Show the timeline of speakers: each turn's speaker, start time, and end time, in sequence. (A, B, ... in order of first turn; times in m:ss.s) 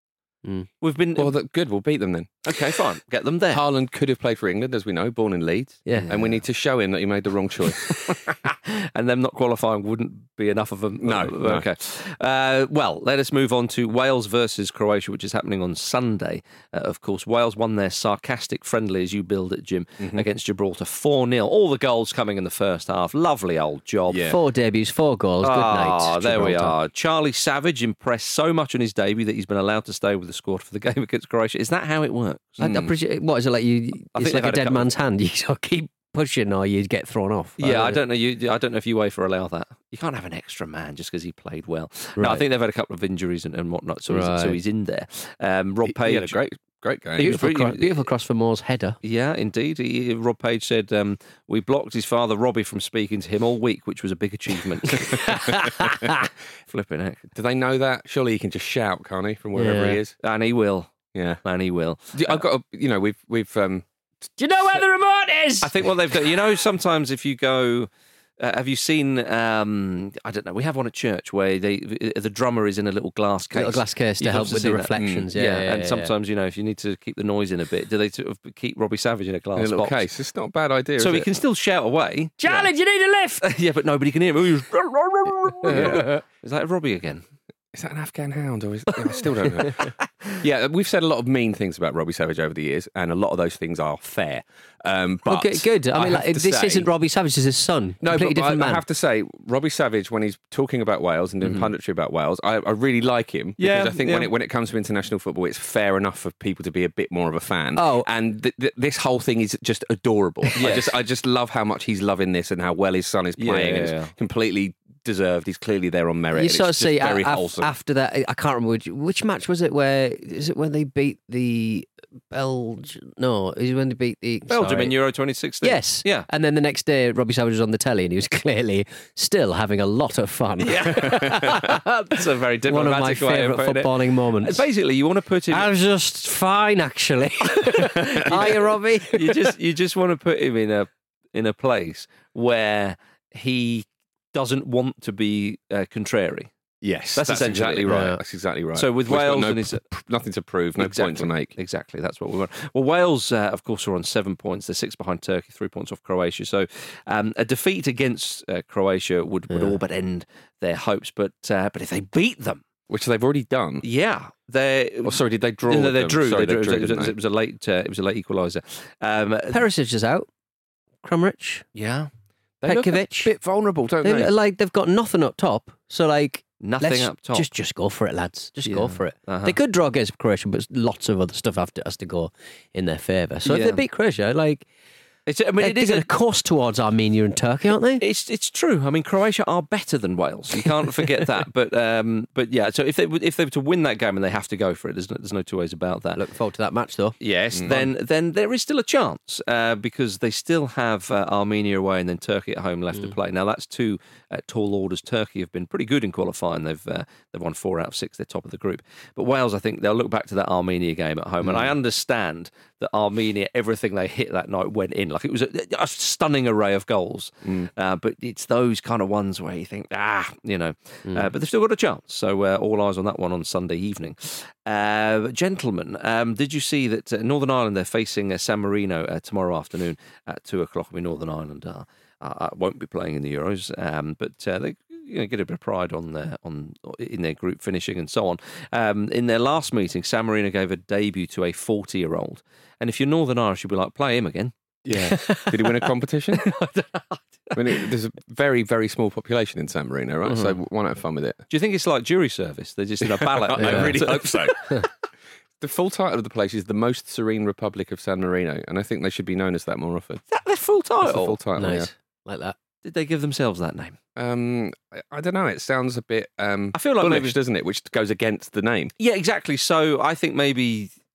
0:00.8-0:01.3 A
0:01.2-0:02.4 B
0:02.4-0:03.6 A
0:03.5-0:08.2 B
0:05.9-0:06.1 C
0:05.9-0:06.4 A
0:08.5-0:24.3 A
0:11.0-0:11.7 B
0:20.0-0:20.3 B
0:24.1-0:24.4 B
0:24.2-0:26.8 C
0:25.4-0:32.9 A
0:32.6-0:38.0 C
0:32.6-0:32.9 B
0:34.1-0:34.9 A
0:37.6-0:46.4 A
0:42.2-0:42.4 C
0:44.1-0:44.6 C
0:45.9-0:47.4 B
0:47.2-0:49.0 C
0:47.2-0:48.0 A
0:49.0-0:55.4 A
0:55.0-0:55.9 C
0:56.7-0:57.2 A
0:57.3-1:00.2 B
0:59.6-1:00.0 C
1:00.2-1:02.4 A
1:01.1-1:01.4 B
1:02.1-1:03.8 B
1:04.4-1:05.9 C
1:05.6-1:07.9 A
1:08.4-1:20.0 A
1:13.5-1:16.1 C
1:15.0-1:15.3 B
1:19.6-1:21.3 B
1:21.0-1:22.7 A
1:22.4-1:23.4 C
1:23.4-1:27.2 A
1:25.7-1:26.1 C
1:25.7-1:26.2 B
1:27.7-1:36.9 B
1:35.3-1:38.8 C
1:38.0-1:57.7 B
1:43.6-1:44.3 A
1:47.8-1:48.1 C
1:50.6-1:51.0 A
1:53.4-1:54.1 A
1:56.3-2:05.0 C
2:04.5-2:06.3 A
2:05.6-2:14.7 C
2:10.6-2:15.7 A
2:11.2-2:11.5 B
2:15.5-2:19.6 C
2:18.2-2:18.5 B
2:18.2-2:26.5 A
2:26.8-2:31.5 B
2:27.2-2:28.1 A
2:27.9-2:28.2 C
2:28.7-2:29.8 A
2:30.8-2:42.6 A
2:39.5-2:39.8 C
2:42.9-2:43.8 B
2:43.8-2:49.6 A
2:45.0-2:47.1 B
2:49.5-2:50.3 C
2:51.0-2:51.6 C
2:51.8-2:52.1 A
2:52.6-2:54.3 B
2:52.6-2:53.4 C
2:54.0-3:04.7 C
2:56.6-2:57.5 A
2:58.6-2:59.6 A
3:03.4-3:03.8 A
3:05.3-3:06.1 A
3:05.6-3:08.0 C
3:08.0-3:16.2 A
3:16.2-3:17.2 C
3:17.2-4:04.5 A
3:17.6-3:17.9 B
3:41.1-3:41.3 C
4:04.8-4:06.5 B
4:05.0-4:05.8 C
4:06.4-4:07.9 A
4:07.6-4:11.4 B
4:10.3-4:10.6 A
4:11.5-4:14.6 A
4:13.0-4:14.8 B
4:13.6-4:14.1 C
4:15.6-4:20.2 B
4:20.3-4:21.4 A
4:21.0-4:21.9 B
4:21.6-4:22.6 C
4:22.8-4:24.0 A
4:24.2-4:28.9 B
4:26.8-4:27.4 A
4:29.0-4:30.9 A